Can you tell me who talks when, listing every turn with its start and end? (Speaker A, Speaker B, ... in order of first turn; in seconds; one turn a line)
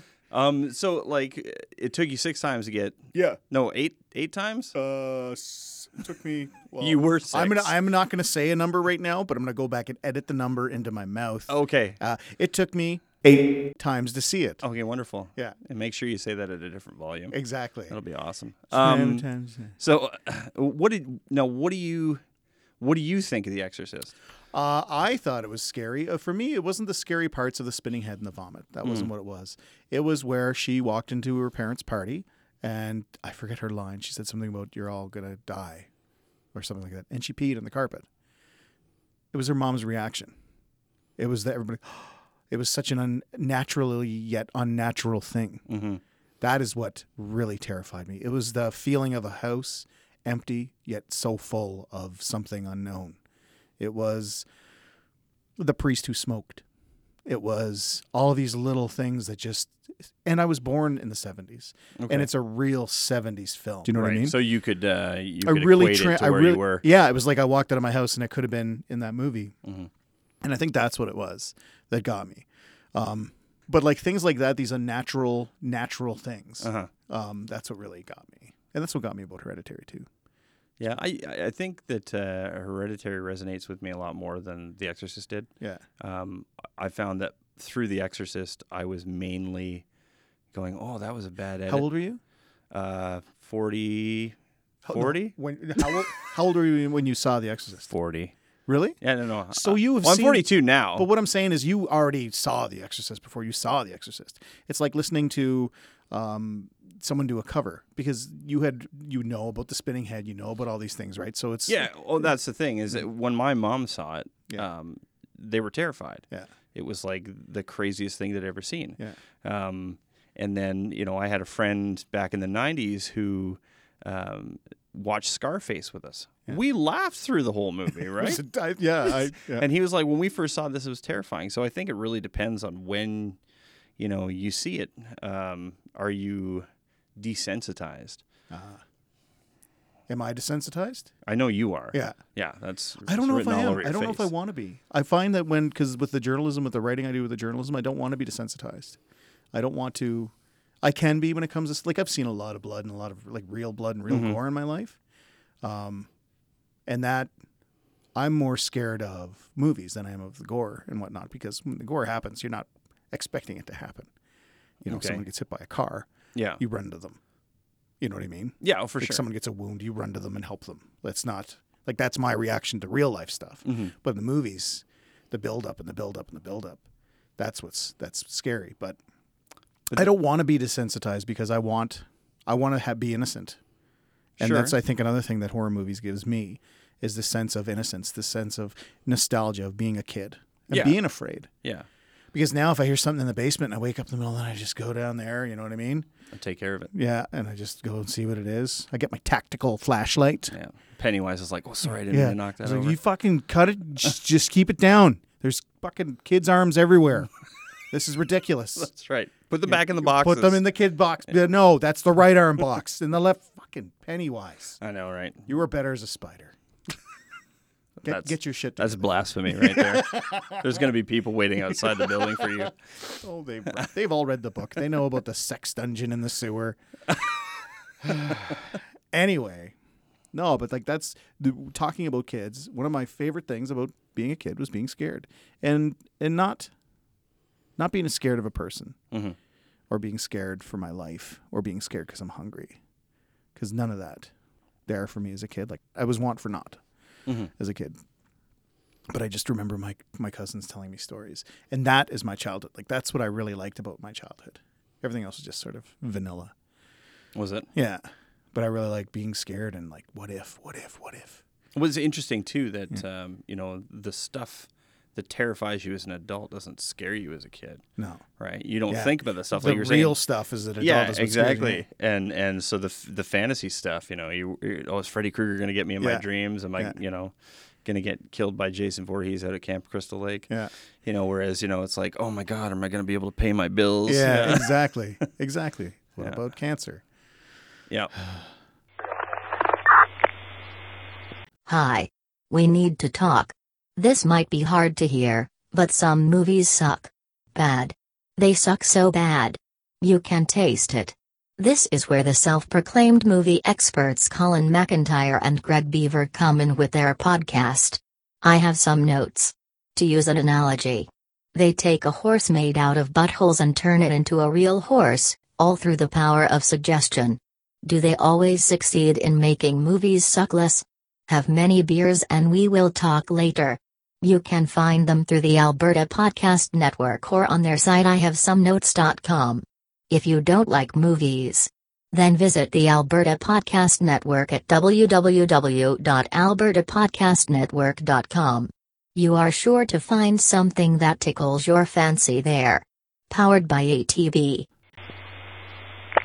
Speaker A: 0.3-4.8
Speaker B: 3.1-3.4
Speaker B: 4.7-14.6
Speaker A: 6.8-7.7
Speaker A: 11.5-12.0
Speaker A: 14.6-17.4
Speaker B: 17.3-18.0
Speaker A: 17.9-19.3
Speaker B: 18.7-19.8
Speaker A: 19.8-22.2
Speaker A: 22.8-24.1
Speaker B: 24.5-35.9
Speaker A: 28.8-29.1
Speaker B: 36.5-38.1
Speaker B: 39.3-40.3
Speaker B: 41.2-45.7
Speaker A: 45.7-46.0
Speaker B: 46.4-53.2
Speaker B: 53.8-54.5
Speaker B: 55.6-56.6
Speaker B: 57.2-64.4
Speaker A: 62.0-62.3
Speaker A: 63.9-66.8
Speaker B: 65.4-69.5
Speaker A: 69.6-69.9
Speaker B: 70.4-80.1
Speaker A: 76.6-76.9
Speaker A: 80.8-89.8
Speaker A: 90.5-91.9
Speaker B: 91.7-92.2
Speaker A: 92.7-94.4
Speaker B: 94.8-97.9
Speaker A: 94.9-95.9
Speaker A: 97.9-98.3
Speaker B: 98.7-99.0
Speaker A: 99.0-101.1
Speaker B: 99.5-111.9
Speaker A: 111.7-128.4
Speaker B: 128.2-129.7
Speaker A: 129.1-133.4
Speaker A: 134.0-138.2
Speaker B: 138.5-138.8
Speaker B: 140.1-141.1
Speaker A: 141.2-144.3
Speaker B: 141.9-142.2
Speaker B: 143.1-149.0
Speaker B: 149.5-155.0
Speaker A: 154.1-154.4
Speaker B: 155.6-156.1
Speaker B: 156.9-157.3
Speaker B: 158.2-164.1
Speaker A: 164.8-165.2
Speaker B: 164.8-167.2
Speaker A: 166.3-166.6
Speaker B: 168.0-176.8
Speaker A: 168.6-169.2
Speaker A: 173.7-173.9
Speaker B: 177.4-179.0
Speaker B: 179.9-183.6
Speaker A: 184.4-184.8
Speaker B: 184.4-191.5
Speaker A: 190.7-191.0
Speaker A: 191.6-191.9
Speaker B: 192.3-196.1
Speaker A: 196.3-196.9
Speaker B: 196.9-200.6
Speaker A: 200.5-203.0
Speaker B: 202.1-207.3
Speaker B: 207.9-208.9
Speaker A: 208.8-210.6
Speaker B: 209.7-214.8
Speaker A: 214.8-215.5
Speaker B: 215.5-216.5
Speaker B: 218.0-220.8
Speaker A: 218.1-222.8
Speaker B: 223.2-226.8
Speaker B: 228.0-229.8
Speaker B: 230.3-236.7
Speaker B: 237.8-239.0
Speaker A: 239.1-239.4
Speaker B: 239.9-242.8
Speaker B: 243.6-244.3
Speaker B: 244.9-246.8
Speaker B: 247.6-248.0
Speaker B: 249.1-256.5
Speaker A: 257.4-257.7
Speaker B: 257.7-261.4
Speaker A: 261.8-267.8
Speaker B: 268.0-268.2
Speaker A: 268.4-270.2
Speaker B: 268.9-271.9
Speaker A: 270.8-280.5
Speaker B: 276.0-276.2
Speaker A: 281.0-284.8
Speaker B: 284.1-287.0
Speaker C: 291.7-344.7